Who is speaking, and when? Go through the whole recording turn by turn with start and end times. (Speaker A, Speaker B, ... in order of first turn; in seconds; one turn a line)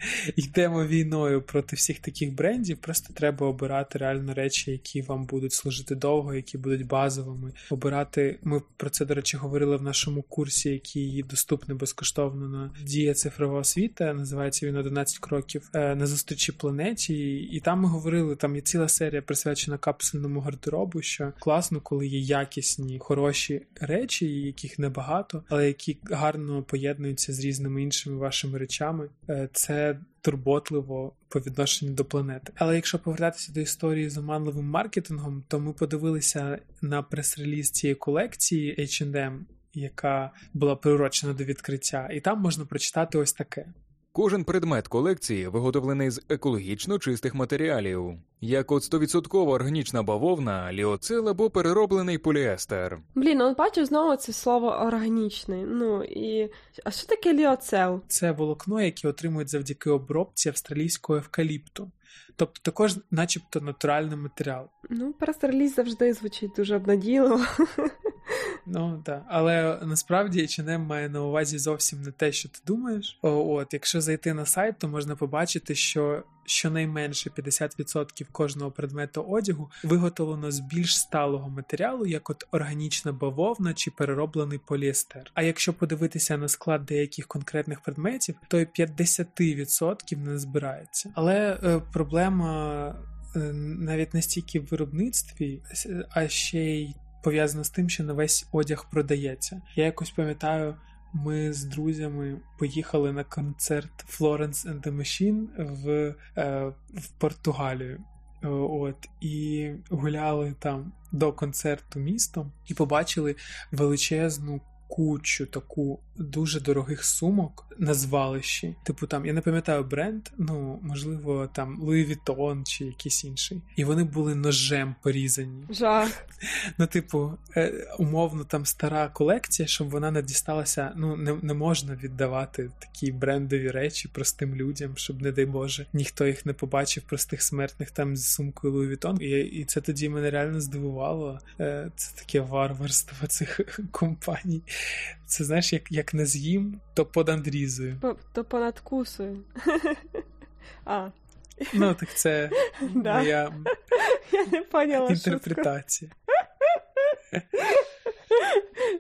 Speaker A: 0.3-43.7
Speaker B: 44.1-53.0
Speaker C: 53.1-58.0
Speaker A: 58.1-64.7
Speaker C: 64.9-68.5
Speaker A: 68.7-125.7
Speaker C: 125.7-126.2
Speaker A: 126.8-144.7
Speaker A: 145.3-148.0
Speaker C: 148.0-150.2
Speaker C: 150.9-151.9
Speaker A: 151.7-153.7
Speaker C: 152.7-155.7
Speaker A: 155.0-156.1
Speaker C: 158.3-158.6